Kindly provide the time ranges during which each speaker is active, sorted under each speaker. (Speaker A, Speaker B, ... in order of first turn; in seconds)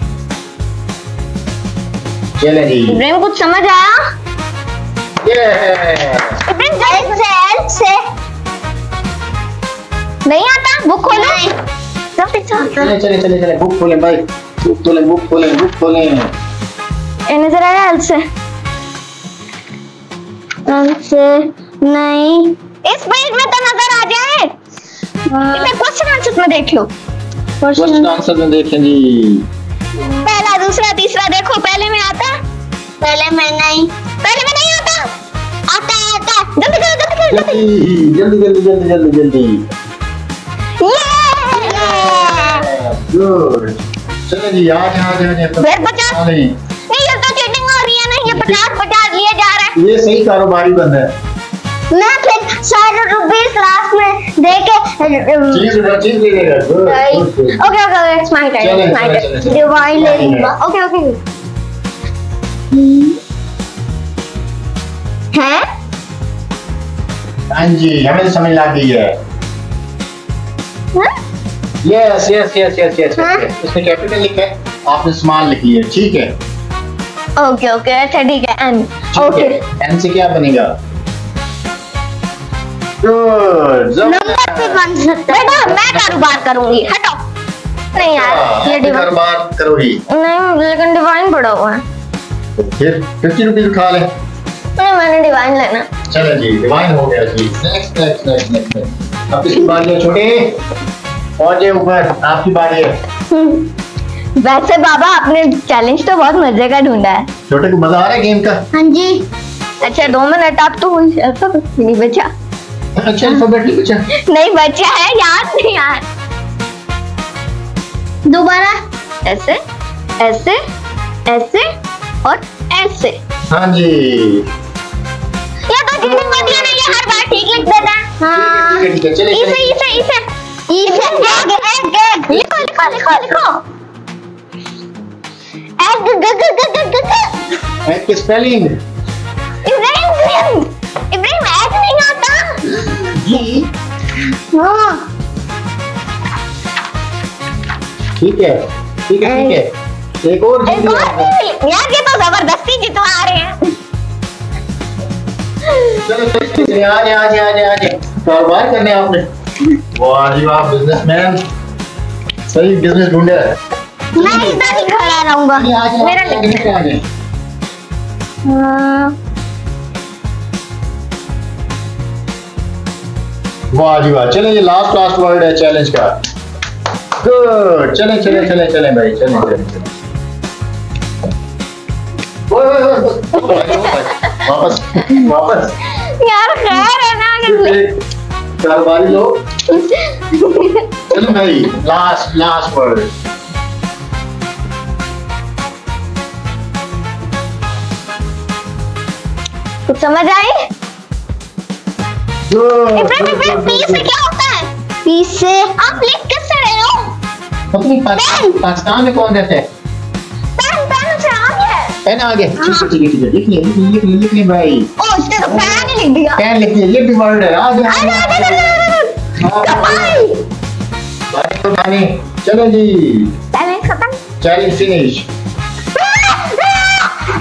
Speaker A: 2.4-3.0, 5.2-6.4, 12.7-16.3, 27.8-29.5, 37.3-39.6, 41.6-46.6, 48.2-48.6, 49.8-51.1, 55.5-57.6, 58.6-60.5, 67.5-69.2, 71.8-76.3, 79.1-80.7, 83.0-84.8, 85.7-86.6, 88.0-90.0, 92.6-94.1, 96.1-100.6, 101.4-102.9, 107.5-108.6, 109.8-110.2, 113.0-114.0, 123.5-124.5, 126.0-127.1, 128.3-130.0, 137.9-138.8, 143.0-143.7, 148.2-149.7, 150.2-151.3, 156.1-159.3, 160.0-161.4, 162.5-163.6, 164.2-164.7, 165.5-167.0, 173.7-176.1, 177.2-179.9, 182.5-185.8, 187.4-188.0, 188.6-189.4, 191.1-193.1, 202.5-204.1, 207.7-209.7, 212.1-214.9, 215.4-220.3, 221.3-223.3, 224.4-225.3
Speaker B: 2.9-4.0, 6.5-7.2, 10.3-11.4, 12.2-12.9, 17.3-18.2, 20.7-21.5, 22.8-24.5, 25.5-26.9, 30.0-32.4, 34.2-35.1, 36.6-37.6, 40.8-42.2, 45.6-46.2, 46.9-49.8, 57.6-59.3, 77.4-79.6, 85.3-87.2, 87.9-89.1, 90.1-91.8, 94.8-95.9, 103.3-103.7, 104.4-107.3, 109.8-112.3, 114.3-116.0, 119.2-119.6, 120.2-120.6, 121.3-121.7, 122.2-123.2, 125.7-128.1, 129.3-130.2, 130.8-131.5, 132.3-133.6, 139.6-142.8, 149.2-149.6, 150.7-153.7, 155.7-156.0, 166.0-166.8, 168.5-169.1, 183.4-184.4, 185.9-187.8, 189.7-190.9, 199.9-200.7, 202.9-204.7, 205.8-207.1, 210.6-212.0, 215.0-216.4, 217.8-220.4, 223.5-224.2, 226.0-227.1
Speaker C: 6.8-8.0, 11.0-11.6, 21.8-22.6, 25.3-25.7, 27.6-28.1, 33.0-33.9, 35.7-36.5, 41.6-42.7, 51.9-55.7, 56.8-57.3, 59.5-61.2, 62.8-63.1, 65.3-65.7, 73.2-73.5, 84.0-85.8, 108.7-109.3, 118.3-118.8, 128.2-128.9, 130.7-133.1, 135.8-137.5, 144.5-145.1, 164.2-165.7, 205.1-205.8, 208.2-208.6, 212.6-212.9